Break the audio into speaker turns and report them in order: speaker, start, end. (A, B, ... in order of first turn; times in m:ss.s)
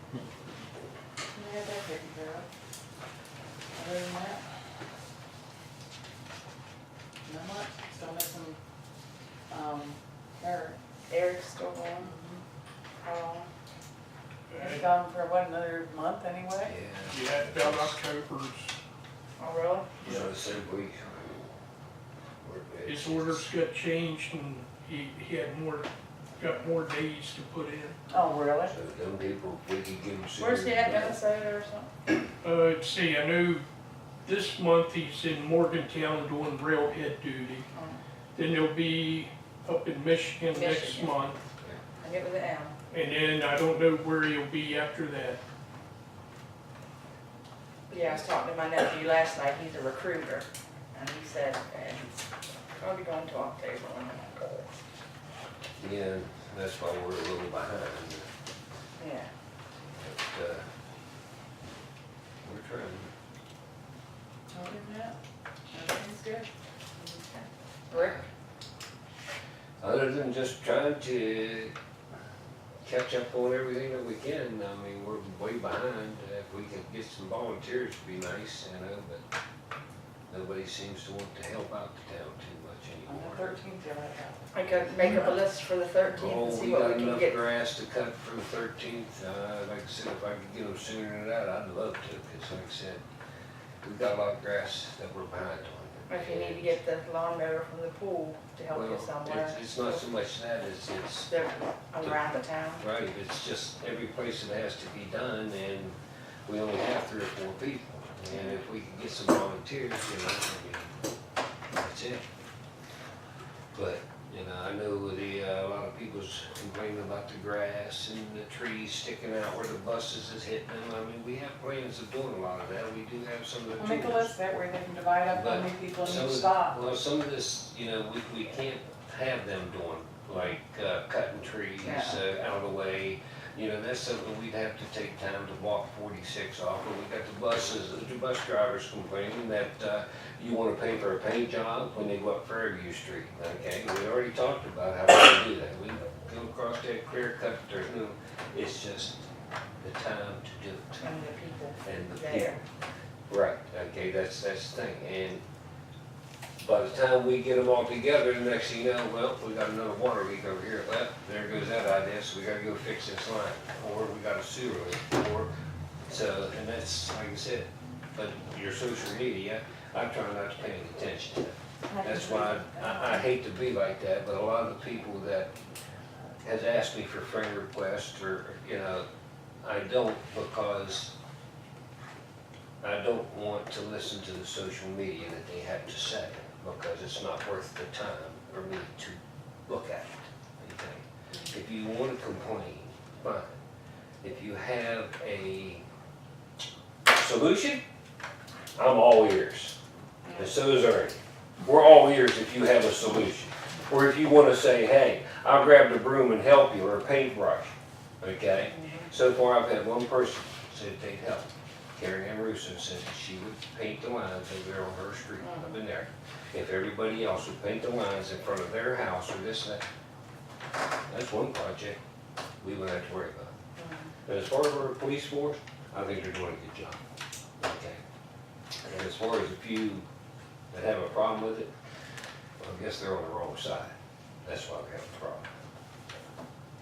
0:01.3-0:02.5 A
0:03.7-0:04.4 A
0:07.2-0:08.6 A
0:09.5-0:10.8 A
0:11.1-0:12.1 B
0:11.9-0:12.3 A
0:13.0-0:13.5 A
0:14.5-0:14.8 C
0:14.6-0:16.8 A
0:16.6-0:18.0 D
0:17.1-0:18.7 C
0:19.4-0:19.9 B
0:20.0-0:20.3 C
0:20.0-0:21.3 D
0:22.4-0:23.4 D
0:22.9-0:28.0 C
0:28.1-0:28.8 A
0:28.7-0:31.2 D
0:30.4-0:31.9 B
0:32.4-0:33.7 C
0:34.2-0:37.7 C
0:37.7-0:38.0 B
0:38.4-0:41.4 C
0:40.5-0:41.2 B
0:42.0-0:42.7 B
0:42.9-0:45.4 C
0:47.9-0:52.2 B
0:52.8-0:54.6 B
0:55.8-0:58.2 D
0:59.0-0:59.3 B
0:59.9-1:00.7 D
1:02.4-1:03.1 D
1:04.5-1:05.2 A
1:05.7-1:06.5 A
1:07.0-1:08.2 B
1:07.9-1:08.2 D
1:09.8-1:11.7 D
1:12.8-1:19.2 D
1:20.3-1:23.6 D
1:23.0-1:24.5 A
1:24.5-1:27.4 B
1:26.1-1:33.0 D
1:33.8-1:36.8 D
1:36.1-1:40.0 B
1:38.7-1:41.3 D
1:41.3-1:42.8 B
1:42.8-1:46.0 D
1:46.5-1:50.9 D
1:48.3-1:48.6 B
1:51.7-1:52.2 D
1:53.7-2:04.3 D
2:03.8-2:06.8 A
2:05.3-2:29.3 D
2:11.8-2:12.2 A
2:29.8-2:31.1 D
2:31.0-2:32.6 B
2:31.8-2:32.6 D
2:33.3-2:35.4 D
2:36.6-2:45.5 D
2:46.1-2:55.5 D
2:51.9-2:53.1 A
2:56.4-2:59.0 D
2:59.6-3:01.1 D
3:02.8-3:13.5 D
3:14.2-3:15.8 D
3:17.1-3:17.8 D
3:18.8-3:19.8 D
3:20.2-3:20.6 B
3:20.4-3:39.8 D
3:28.7-3:29.1 B
3:35.4-3:35.7 B
3:41.1-3:42.0 D
3:42.6-3:43.5 D
3:43.8-3:44.1 B
3:44.2-3:47.0 D
3:47.6-3:48.0 D
3:48.8-3:50.0 D
3:50.7-3:51.7 D
3:52.6-3:53.9 D
3:54.4-3:55.5 D